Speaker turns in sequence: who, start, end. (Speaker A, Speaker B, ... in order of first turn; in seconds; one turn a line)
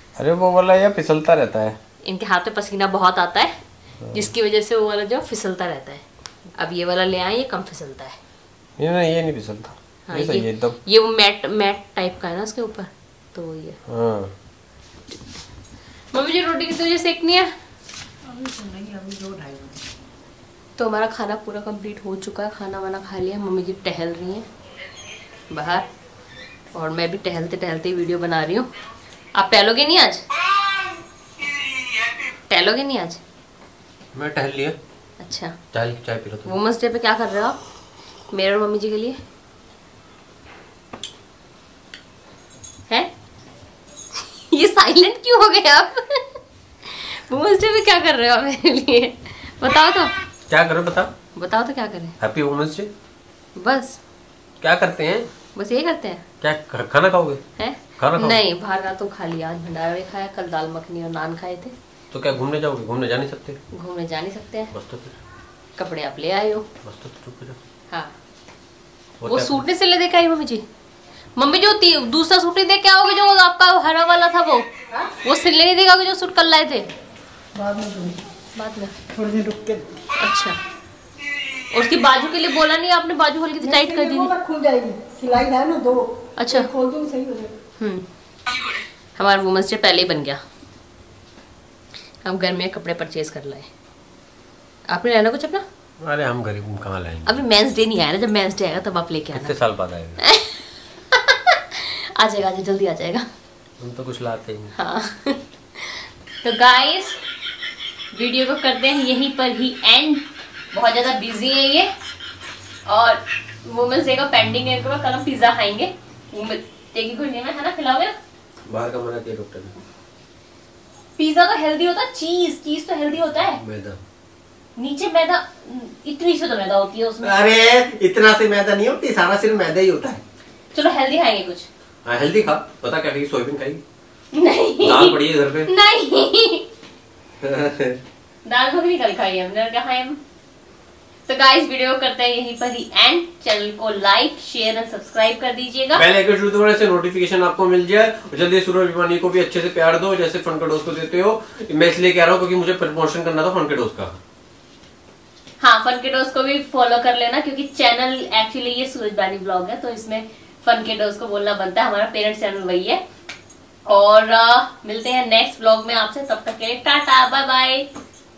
Speaker A: 0.2-1.8
Speaker B: 2.0-3.5
Speaker B: 4.1-6.0
Speaker B: 6.5-8.2
Speaker A: 8.8-10.8
Speaker B: 10.1-13.8
Speaker A: 13.9-14.3
Speaker B: 16.1-17.5
Speaker C: 18.2-19.9
Speaker B: 20.8-24.4
Speaker B: 25.5-25.8
Speaker B: 26.7-28.7
Speaker B: 29.3-30.2
Speaker B: 32.5-33.2
Speaker A: 34.1-34.8
Speaker B: 35.2-35.6
Speaker A: 35.7-36.5
Speaker B: 36.4-37.6
Speaker B: 38.3-39.2
Speaker B: 44.1-50.1
Speaker A: 50.5-51.1
Speaker B: 51.3-52.2
Speaker A: 52.2-52.9
Speaker B: 53.5-54.0
Speaker A: 54.6-55.3
Speaker B: 55.5-56.2
Speaker A: 56.4-57.4
Speaker B: 57.6-61.7
Speaker A: 58.0-58.4
Speaker A: 62.1-63.6
Speaker B: 63.7-64.7
Speaker A: 64.7-65.2
Speaker B: 65.8-66.7
Speaker A: 66.8-67.6
Speaker A: 69.2-69.6
Speaker B: 69.2-70.6
Speaker B: 71.3-76.9
Speaker C: 77.5-78.3
Speaker B: 78.5-79.0
Speaker C: 79.1-80.0
Speaker B: 80.1-80.6
Speaker B: 81.7-84.3
Speaker C: 83.6-87.6
Speaker B: 86.4-86.7
Speaker B: 87.8-88.0
Speaker B: 89.2-90.4
Speaker B: 92.2-93.7
Speaker B: 94.9-95.6
Speaker A: 96.0-97.4
Speaker B: 97.2-99.5
Speaker A: 99.3-100.2
Speaker B: 100.2-103.2
Speaker A: 103.8-104.7
Speaker B: 104.7-107.2
Speaker B: 108.1-111.9
Speaker B: 112.8-118.1
Speaker A: 118.7-119.7
Speaker B: 121.2-123.6
Speaker A: 123.6-124.0
Speaker B: 124.8-127.4
Speaker A: 127.2-130.2
Speaker B: 130.7-131.7
Speaker A: 132.0-133.8
Speaker B: 134.3-136.7
Speaker A: 134.8-135.7
Speaker A: 137.4-138.0
Speaker B: 138.4-140.2
Speaker B: 141.3-146.1
Speaker A: 145.9-154.2
Speaker B: 155.6-163.0
Speaker B: 163.8-167.9